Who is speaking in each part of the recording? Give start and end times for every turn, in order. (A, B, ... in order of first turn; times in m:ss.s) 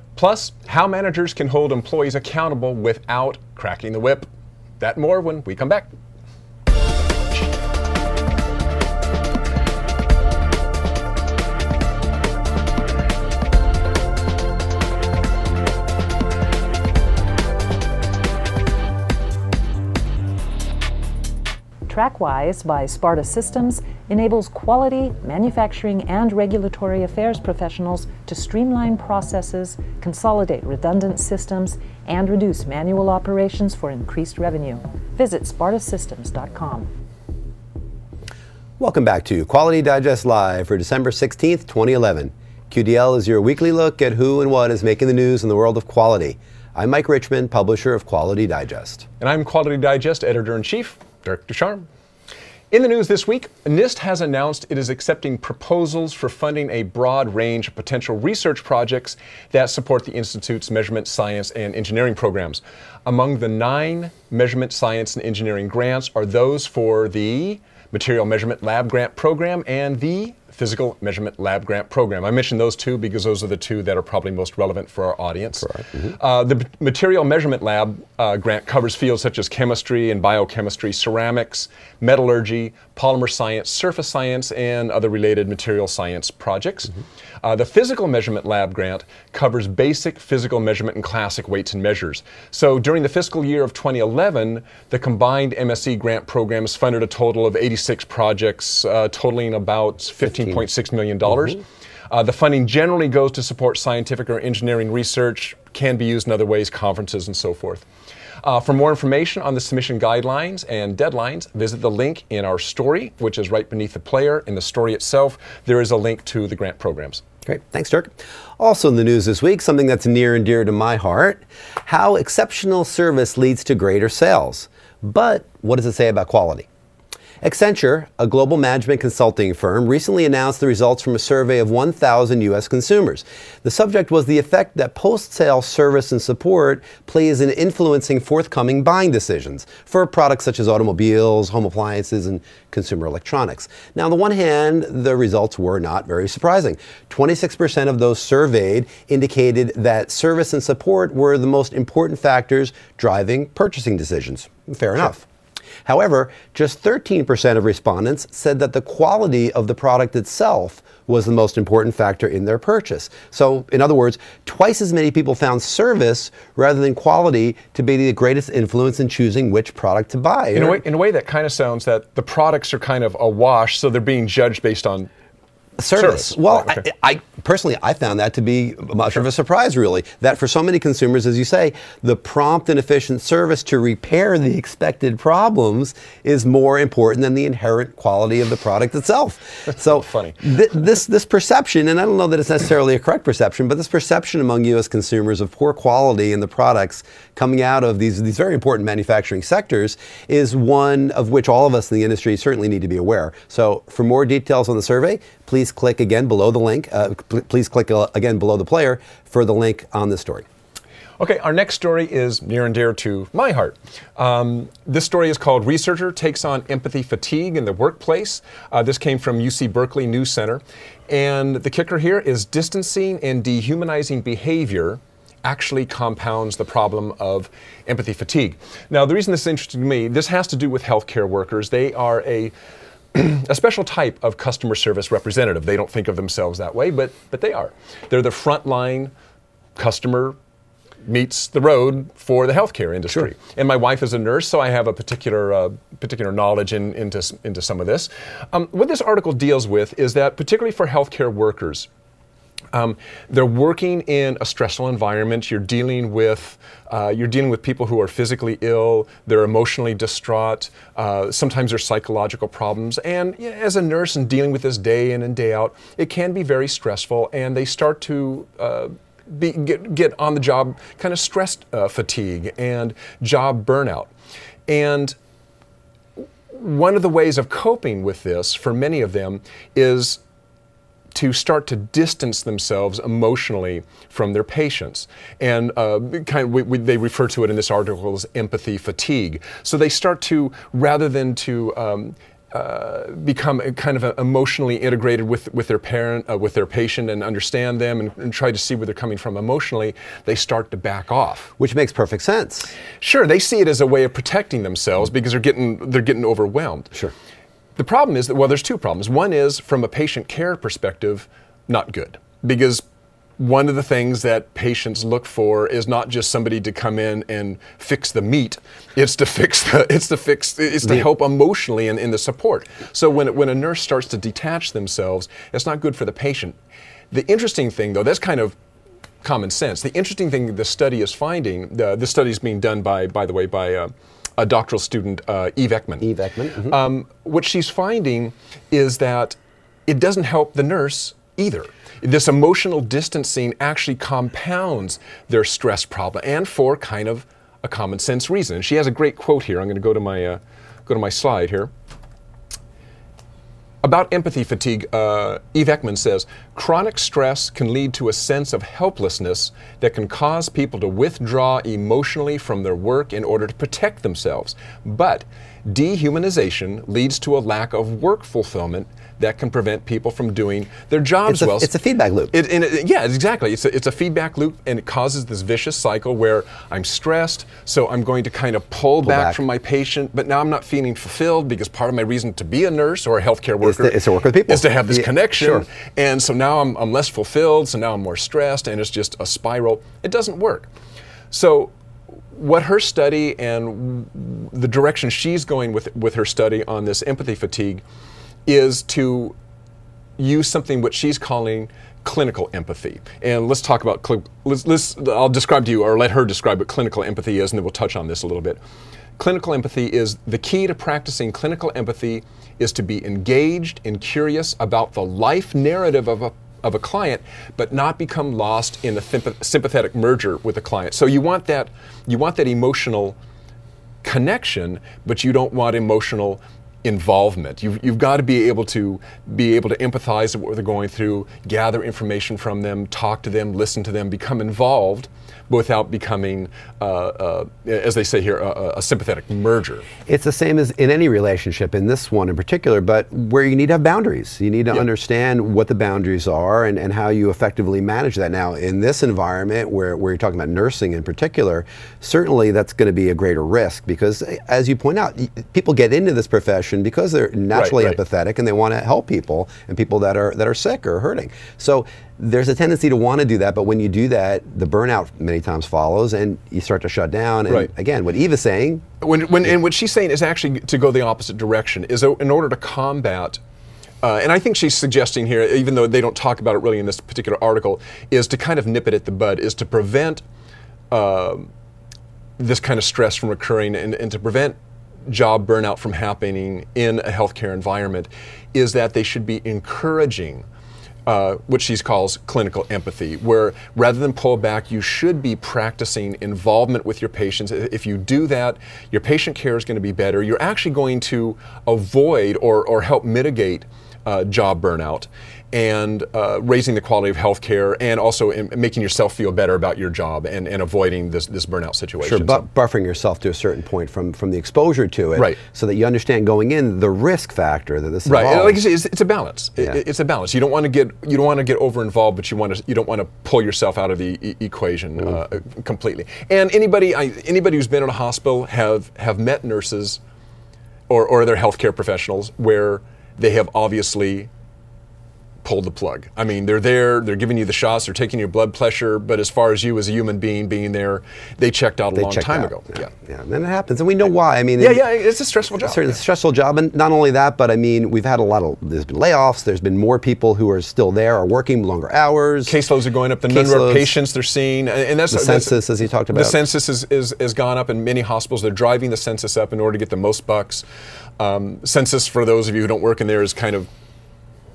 0:00.2-0:04.2 A
0:04.8-0:05.9 A
0:21.9-0:36.9 B
0:38.8-0:49.0 C
0:49.2-0:51.8 A
0:52.7-1:47.8 A
1:48.4-1:57.2 A
1:57.4-2:06.7 C
2:07.4-2:35.2 C
2:35.8-2:50.8 C
2:50.5-2:55.1 A
2:55.8-3:30.4 C
2:56.0-2:56.8 A
3:10.1-3:10.3 A
3:31.2-3:52.5 A
3:53.1-3:59.1 A
3:59.8-4:00.4 A
4:01.0-4:11.9 A
4:12.7-4:34.1 A
4:34.7-4:35.2 A
4:36.5-4:40.2 A
4:41.1-5:01.5 A
5:01.6-5:02.7 C
5:03.0-5:07.0 A
5:07.8-5:12.8 A
5:13.4-5:26.6 A
5:27.1-5:28.5 A
5:29.2-5:36.1 A
5:36.0-5:36.8 C
5:36.7-5:51.7 A
5:53.8-6:11.7 A
6:11.3-6:12.3 C
6:12.3-6:30.7 A
6:19.0-6:19.4 C
6:23.6-6:25.6 C
6:31.3-6:31.7 A
6:32.3-6:37.8 A
6:38.4-6:39.4 A
6:40.2-6:48.6 A
6:49.2-7:03.2 A
7:04.0-7:19.8 A
7:20.0-7:48.8 C
7:37.5-7:38.0 A
7:49.0-7:53.4 A
7:54.0-8:00.2 A
8:00.9-8:01.5 A
8:02.4-8:10.4 A
8:11.0-8:32.4 A
8:32.0-8:38.6 C
8:38.0-8:50.0 A
8:50.9-8:54.3 A
8:55.4-9:02.9 A
9:02.0-9:04.8 C
9:04.6-9:06.0 A
9:05.6-9:12.5 C
9:12.4-9:15.6 A
9:13.3-9:13.9 C
9:15.1-9:16.4 C
9:16.1-9:20.6 A
9:21.2-9:23.7 A